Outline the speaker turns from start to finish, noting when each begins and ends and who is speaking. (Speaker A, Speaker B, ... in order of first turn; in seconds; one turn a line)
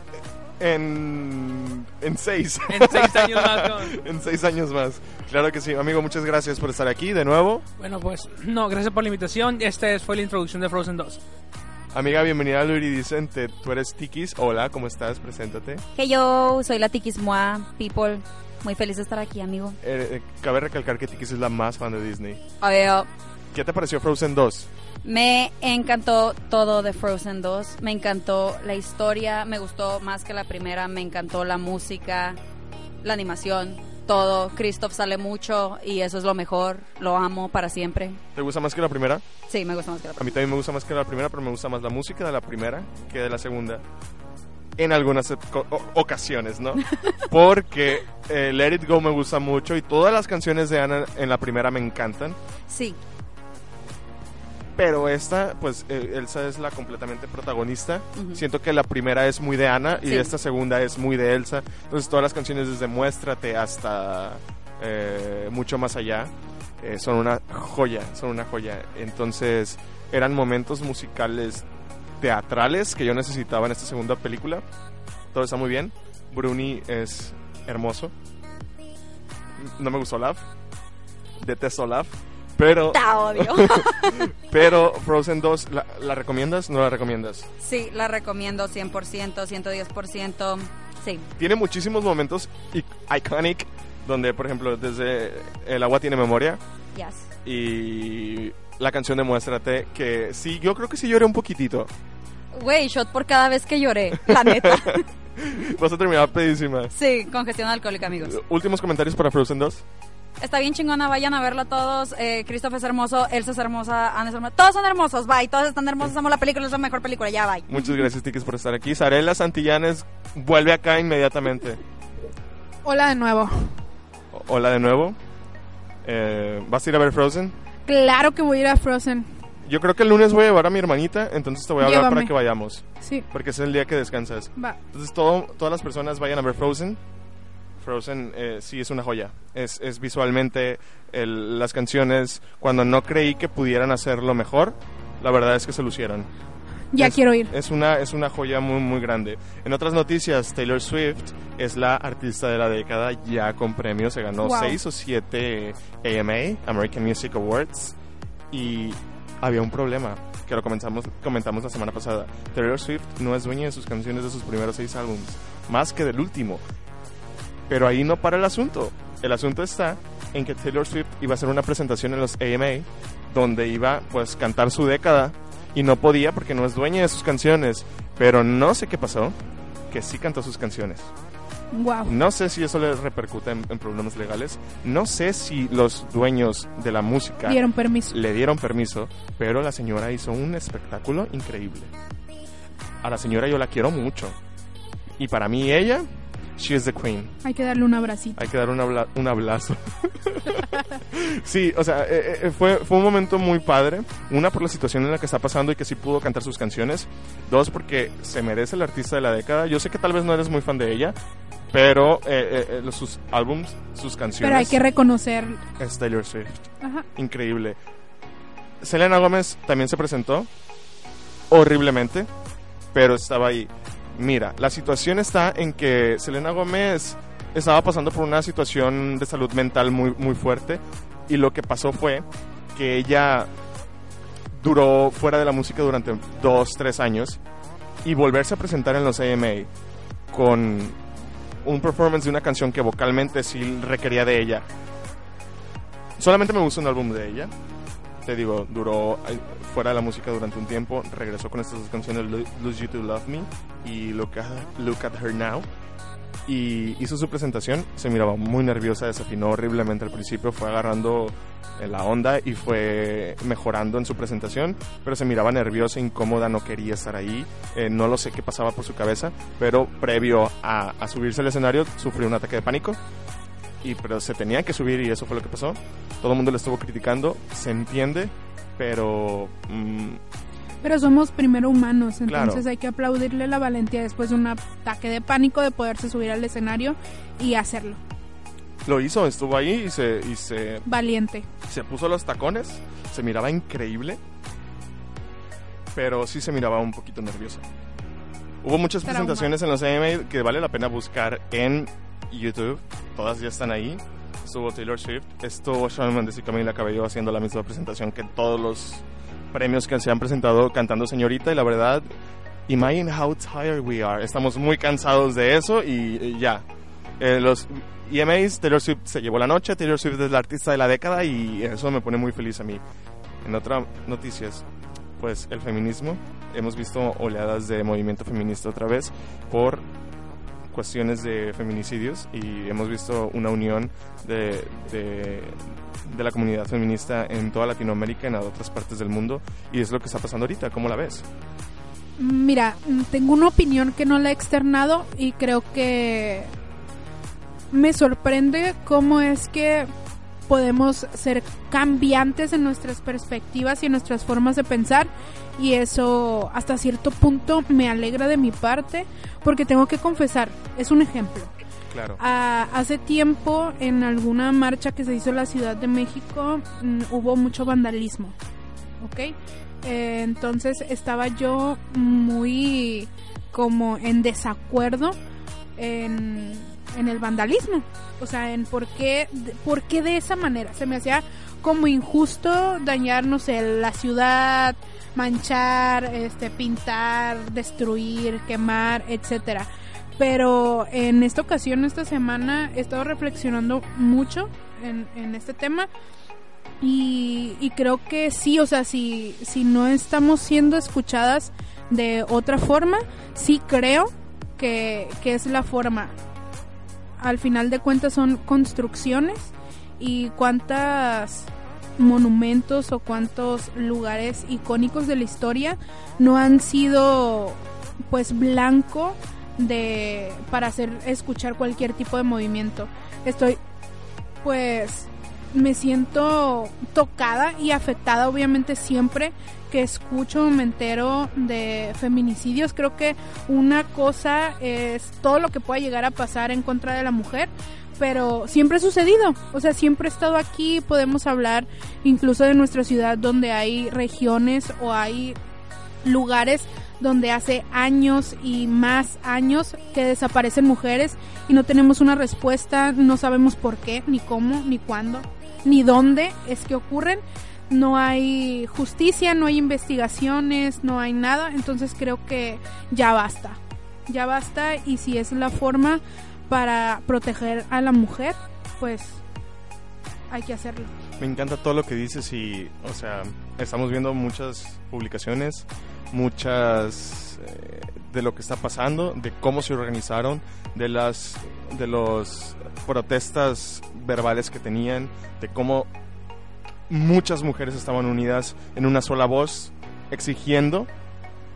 Speaker A: 0.6-7.7
Speaker B: 2.7-4.0
Speaker B: 7.8-11.2
Speaker A: 11.9-15.8
Speaker C: 15.9-19.8
Speaker A: 19.8-22.4
Speaker C: 22.6-23.1
Speaker A: 23.5-24.7
Speaker C: 25.0-32.4
Speaker C: 33.0-38.2
Speaker A: 38.3-39.2
Speaker C: 39.5-40.3
Speaker A: 40.2-43.8
Speaker A: 44.8-52.4
Speaker C: 52.7-53.0
Speaker A: 54.8-71.7
Speaker C: 60.0-60.3
Speaker A: 72.2-74.6
Speaker A: 75.3-78.1
Speaker A: 79.6-80.4
Speaker A: 81.4-87.5
Speaker C: 82.9-84.3
Speaker C: 87.6-91.3
Speaker A: 91.4-96.6
Speaker C: 96.9-97.3
Speaker A: 97.4-101.9
Speaker C: 102.5-105.0
Speaker A: 104.2-106.9
Speaker C: 106.9-108.3
Speaker A: 108.2-109.8
Speaker C: 110.4-117.9
Speaker A: 117.7-121.8
Speaker D: 122.8-123.8
Speaker A: 124.3-125.2
Speaker A: 126.0-127.5
Speaker D: 127.9-129.3
Speaker A: 129.6-137.0
Speaker D: 131.8-132.3
Speaker D: 133.0-133.2
Speaker A: 137.8-146.3
Speaker D: 146.9-147.5
Speaker A: 147.0-158.0
Speaker D: 154.4-154.8
Speaker A: 158.5-166.6
Speaker A: 167.7-179.3
Speaker A: 179.9-181.1
Speaker D: 181.7-182.1
Speaker A: 182.1-191.9
Speaker D: 187.4-188.2
Speaker A: 193.0-194.4
Speaker A: 195.2-196.1
Speaker A: 196.6-197.4
Speaker D: 197.4-198.4
Speaker A: 198.4-211.2
Speaker A: 211.7-214.8
Speaker D: 214.4-215.6
Speaker A: 215.8-216.6
Speaker D: 216.8-217.1
Speaker A: 217.2-217.8
Speaker A: 218.8-220.5
Speaker A: 221.5-222.3
Speaker A: 222.9-233.5
Speaker A: 234.5-237.4
Speaker A: 238.0-239.7
Speaker A: 240.3-241.0
Speaker A: 241.6-244.7
Speaker A: 246.2-247.5
Speaker A: 248.2-255.7
Speaker A: 256.4-273.0
Speaker A: 273.8-280.2
Speaker D: 280.8-288.0
Speaker A: 282.2-282.6
Speaker A: 288.8-290.9
Speaker D: 290.9-291.5
Speaker A: 291.6-294.2
Speaker A: 295.9-297.6
Speaker A: 298.6-312.1
Speaker D: 299.0-299.5
Speaker A: 312.7-316.6
Speaker A: 317.2-322.8
Speaker A: 323.4-324.6
Speaker A: 325.2-329.8
Speaker A: 330.7-341.2
Speaker D: 342.2-346.5
Speaker D: 347.7-349.9
Speaker D: 350.5-361.5
Speaker A: 361.9-362.2
Speaker D: 362.2-368.3
Speaker D: 369.0-375.1
Speaker D: 375.8-395.9
Speaker D: 396.8-406.1
Speaker D: 407.2-423.6
Speaker D: 424.4-445.4
Speaker D: 446.0-469.2
Speaker D: 470.3-470.9
Speaker A: 471.2-485.9
Speaker A: 486.9-490.9